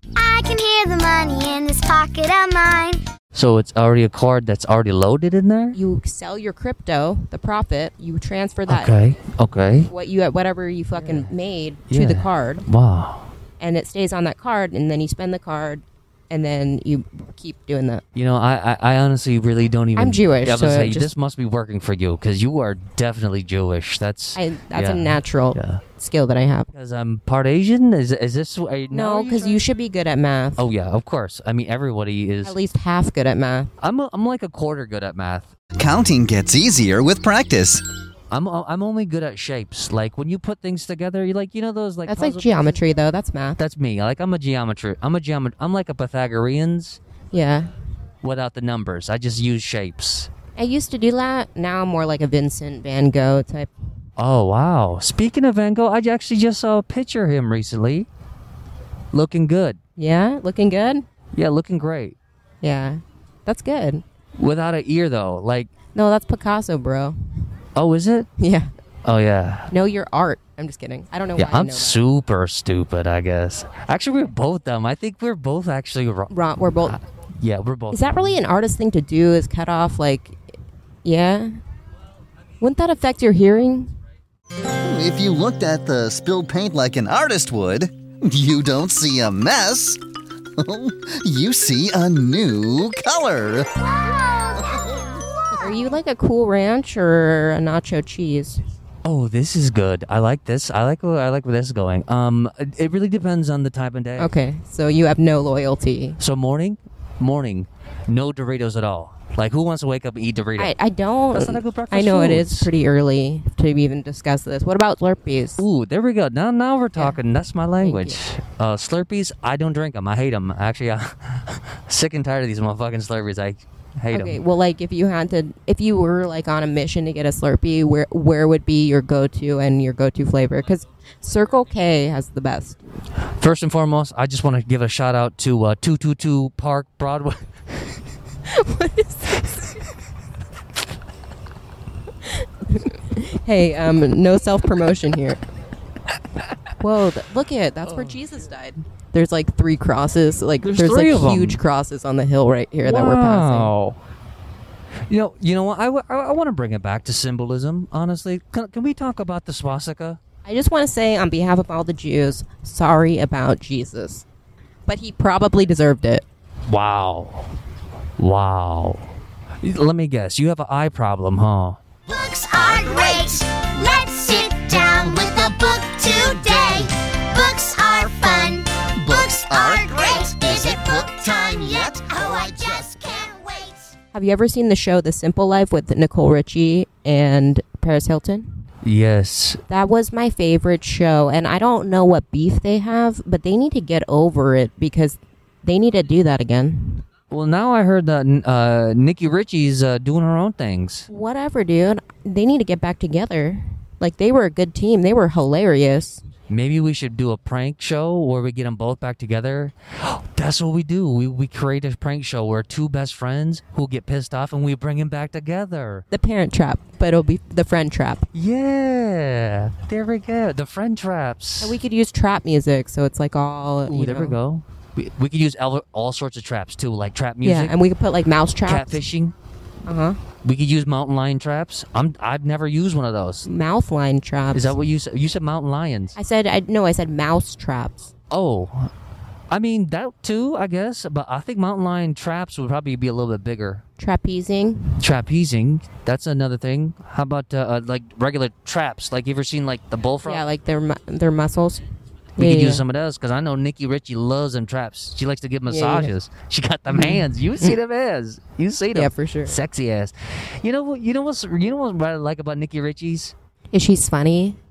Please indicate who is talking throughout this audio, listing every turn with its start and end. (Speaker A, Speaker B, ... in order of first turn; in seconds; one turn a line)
Speaker A: 0.1-3.0
Speaker B: 3.3-5.8
Speaker C: 5.7-8.9
Speaker B: 8.7-9.9
Speaker C: 9.9-12.7
Speaker B: 10.9-11.3
Speaker B: 11.9-13.3
Speaker C: 13.6-18.0
Speaker B: 18.1-25.8
Speaker C: 19.9-21.1
Speaker C: 24.3-26.7
Speaker B: 26.7-29.6
Speaker C: 28.9-30.7
Speaker B: 30.6-32.6
Speaker C: 32.4-33.7
Speaker B: 33.8-35.5
Speaker D: 35.8-37.8
Speaker B: 38.3-42.8
Speaker C: 42.1-43.6
Speaker B: 43.6-47.0
Speaker C: 47.3-47.7
Speaker B: 48.2-50.3
Speaker C: 50.5-53.7
Speaker B: 54.2-58.1
Speaker B: 59.1-59.8
Speaker C: 60.0-61.0
Speaker B: 61.3-62.1
Speaker C: 62.6-64.0
Speaker B: 64.4-65.7
Speaker C: 65.9-67.2
Speaker B: 67.8-68.3
Speaker C: 68.4-68.7
Speaker B: 69.0-69.7
Speaker C: 69.7-72.0
Speaker B: 71.3-78.0
Speaker C: 76.3-77.0
Speaker C: 77.9-80.4
Speaker C: 81.0-81.5
Speaker C: 82.6-83.9
Speaker D: 84.8-90.0
Speaker D: 90.6-93.7
Speaker A: 94.0-95.0
Speaker C: 95.6-98.6
Speaker B: 99.0-104.3
Speaker C: 104.2-106.2
Speaker B: 106.2-110.7
Speaker C: 110.6-115.6
Speaker B: 111.3-112.7
Speaker B: 115.6-124.4
Speaker C: 117.8-118.2
Speaker C: 124.1-132.8
Speaker B: 133.4-137.4
Speaker C: 138.5-139.8
Speaker C: 142.2-145.4
Speaker C: 146.8-153.7
Speaker B: 147.8-148.2
Speaker B: 150.6-151.6
Speaker B: 152.8-154.0
Speaker B: 155.1-160.2
Speaker C: 160.4-164.3
Speaker C: 164.8-166.2
Speaker B: 166.7-167.5
Speaker B: 168.2-171.8
Speaker D: 172.1-173.3
Speaker A: 172.2-183.8
Speaker D: 175.0-176.8
Speaker D: 178.1-178.5
Speaker D: 179.0-183.3
Speaker C: 184.1-188.6
Speaker B: 188.8-189.6
Speaker C: 189.7-197.1
Speaker B: 197.3-201.1
Speaker C: 201.1-206.2
Speaker B: 206.5-216.0
Speaker C: 216.1-218.3
Speaker B: 218.3-221.8
Speaker C: 221.6-224.4
Speaker B: 223.9-227.8
Speaker C: 227.4-229.0
Speaker B: 228.6-229.3
Speaker C: 229.8-230.2
Speaker B: 230.4-233.5
Speaker C: 233.4-234.7
Speaker B: 234.5-236.2
Speaker C: 236.2-238.1
Speaker B: 238.3-238.9
Speaker B: 239.5-243.8
Speaker C: 244.0-245.1
Speaker B: 245.0-250.4
Speaker C: 250.2-252.8
Speaker B: 252.4-263.3
Speaker C: 255.7-256.1
Speaker C: 256.9-257.8
Speaker C: 258.9-259.6
Speaker C: 263.7-264.6